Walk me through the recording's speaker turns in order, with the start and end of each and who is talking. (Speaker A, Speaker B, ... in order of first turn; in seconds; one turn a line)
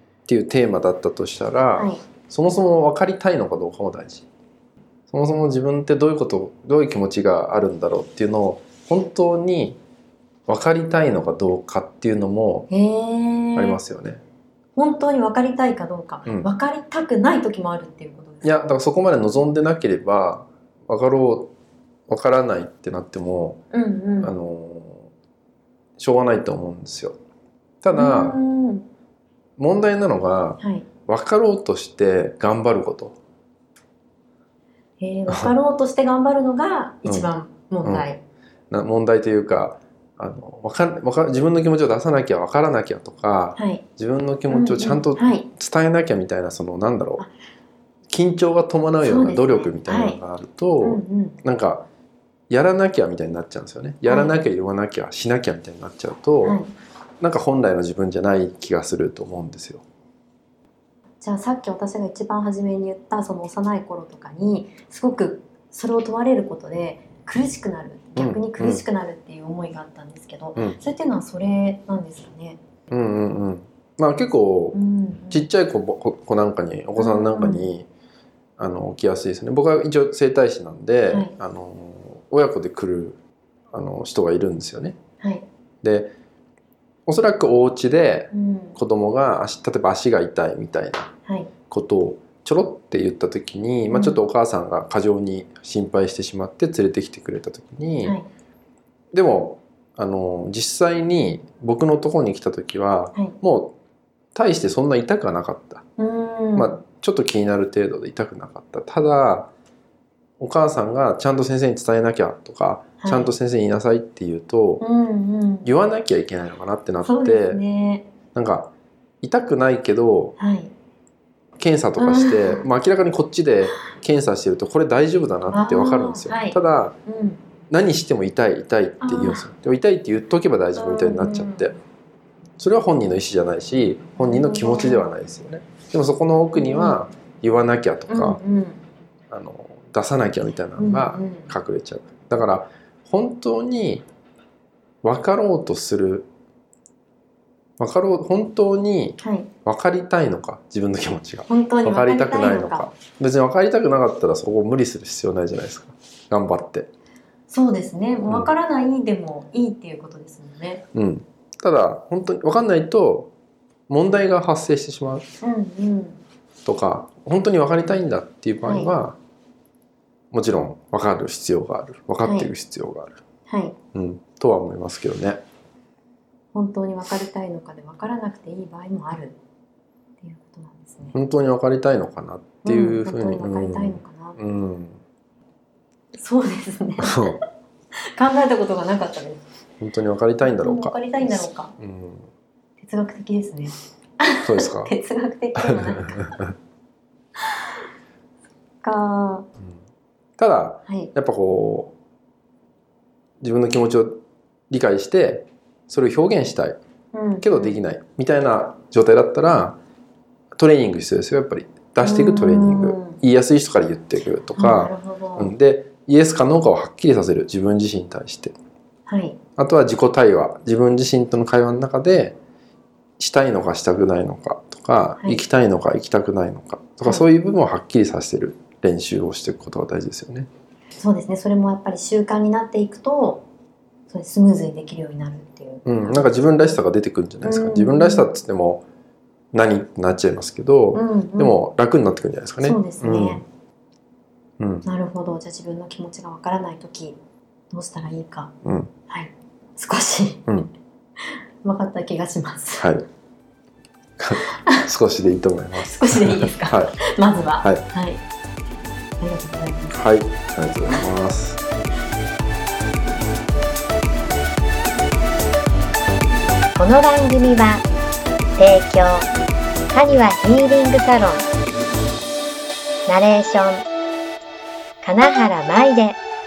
Speaker A: 0.3-4.3
Speaker B: 1.7-2.0
Speaker A: 5.1-9.8
Speaker A: 10.5-12.7
Speaker B: 12.7-13.8
Speaker A: 13.5-14.2
Speaker B: 14.7-18.7
Speaker A: 18.4-21.5
Speaker A: 22.1-23.6
Speaker B: 23.7-24.3
Speaker A: 24.2-25.1
Speaker A: 26.0-27.2
Speaker A: 27.8-28.4
Speaker B: 27.9-28.9
Speaker A: 29.6-33.2
Speaker B: 30.6-30.9
Speaker B: 35.0-38.2
Speaker A: 35.3-35.5
Speaker A: 38.7-47.2
Speaker B: 43.5-43.8
Speaker B: 44.5-45.5
Speaker A: 48.1-51.9
Speaker B: 49.0-50.2
Speaker B: 50.8-51.4
Speaker A: 52.5-56.6
Speaker B: 54.0-54.5
Speaker B: 56.4-56.7
Speaker A: 57.2-59.8
Speaker B: 61.2-72.6
Speaker A: 68.2-68.8
Speaker A: 72.9-74.8
Speaker B: 74.7-75.5
Speaker A: 75.3-77.9
Speaker B: 77.0-77.7
Speaker A: 78.6-83.2
Speaker B: 81.1-81.3
Speaker A: 83.7-85.0
Speaker B: 85.2-85.5
Speaker A: 85.8-86.1
Speaker A: 87.0-91.1
Speaker B: 88.3-88.8
Speaker B: 91.2-91.5
Speaker A: 91.7-98.2
Speaker B: 93.9-94.2
Speaker A: 99.1-103.8
Speaker A: 104.3-105.8
Speaker B: 106.0-106.8
Speaker A: 106.5-109.5
Speaker A: 110.4-114.8
Speaker B: 113.0-113.3
Speaker B: 114.8-115.7
Speaker A: 115.6-117.6
Speaker B: 117.0-118.1
Speaker A: 118.3-120.3
Speaker B: 120.4-120.7
Speaker A: 121.6-127.0
Speaker B: 122.0-122.7
Speaker B: 125.5-127.4
Speaker A: 127.7-131.8
Speaker B: 129.0-129.5
Speaker B: 130.7-131.7
Speaker A: 132.6-138.4
Speaker B: 134.2-135.2
Speaker B: 136.5-137.0
Speaker B: 138.1-138.8
Speaker A: 139.3-144.1
Speaker B: 140.8-141.5
Speaker A: 145.0-146.3
Speaker A: 147.8-156.9
Speaker B: 149.2-149.5
Speaker B: 151.5-152.9
Speaker B: 157.5-160.8
Speaker A: 158.3-158.5
Speaker A: 160.9-163.3
Speaker A: 163.9-165.2
Speaker B: 165.4-166.2
Speaker A: 166.6-169.2
Speaker B: 168.6-168.9
Speaker A: 170.3-173.2
Speaker B: 172.2-172.5
Speaker B: 173.5-173.8
Speaker A: 173.9-175.4
Speaker B: 176.5-179.4
Speaker B: 180.2-181.2
Speaker A: 181.1-185.0
Speaker B: 182.6-184.4
Speaker B: 186.2-187.4
Speaker A: 187.0-187.4
Speaker B: 188.1-189.4
Speaker A: 189.8-192.3
Speaker B: 190.4-191.7
Speaker B: 192.8-196.3
Speaker A: 194.4-194.9
Speaker A: 195.6-196.4
Speaker B: 198.8-199.5
Speaker A: 200.4-201.9
Speaker B: 200.9-201.1
Speaker A: 203.4-206.8
Speaker B: 207.1-207.8
Speaker A: 207.4-209.8
Speaker A: 210.6-218.5
Speaker B: 212.0-213.2
Speaker B: 214.5-215.5
Speaker B: 219.1-219.4
Speaker A: 219.6-222.4
Speaker A: 223.2-230.5
Speaker B: 225.2-225.4
Speaker B: 227.0-227.3
Speaker B: 231.0-233.4
Speaker B: 234.1-236.8
Speaker A: 235.8-238.8
Speaker B: 237.4-238.3
Speaker A: 239.5-243.4
Speaker B: 240.9-241.6
Speaker B: 242.6-243.4
Speaker A: 244.6-244.8
Speaker B: 244.8-247.2
Speaker B: 247.7-248.5
Speaker A: 248.6-248.9
Speaker B: 249.1-250.5
Speaker B: 251.2-252.9
Speaker A: 252.8-253.1
Speaker A: 254.2-257.0
Speaker B: 255.8-258.2
Speaker B: 259.2-260.0
Speaker A: 259.9-261.6
Speaker C: 266.8-267.8
Speaker C: 268.6-269.3
Speaker C: 269.9-271.5
Speaker C: 273.1-273.8
Speaker C: 275.0-276.2